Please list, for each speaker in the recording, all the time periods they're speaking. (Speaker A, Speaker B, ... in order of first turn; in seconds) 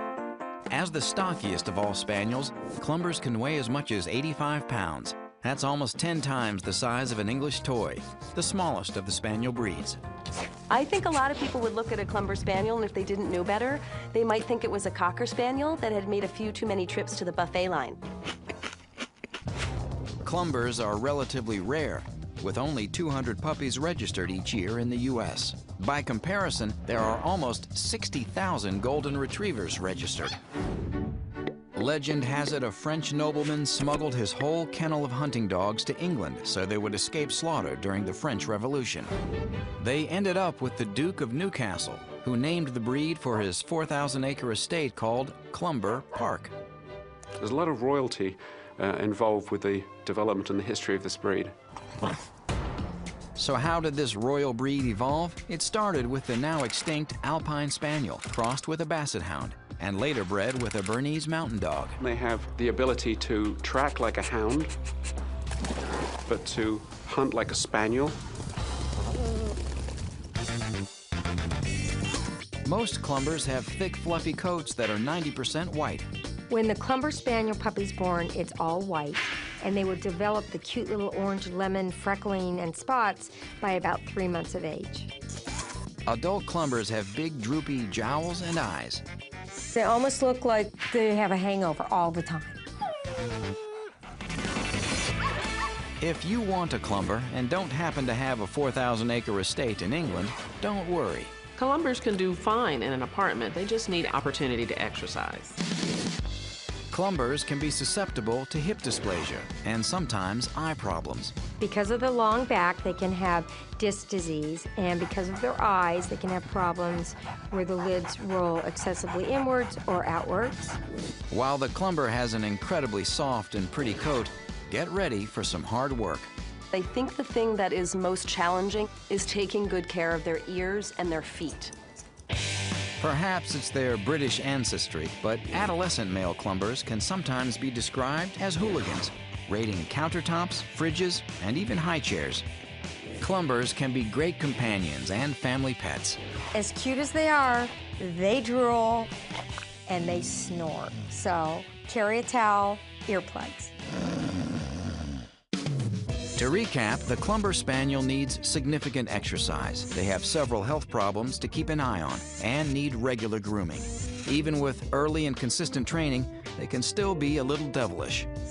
Speaker A: 0.7-10.0, 20.2-30.4, 31.8-39.1, 39.8-46.5, 53.4-62.0, 72.7-76.1, 86.1-89.0, 96.0-101.3, 106.9-111.3, 121.3-126.3, 133.0-142.4, 143.2-146.2, 156.3-168.3
Speaker B: 10.7-18.0, 126.7-131.7
Speaker C: 47.4-51.5, 62.0-64.7, 66.3-68.2
Speaker D: 76.5-85.1, 89.5-92.6, 111.6-120.8, 146.5-149.1, 149.8-153.7
Speaker E: 101.6-105.6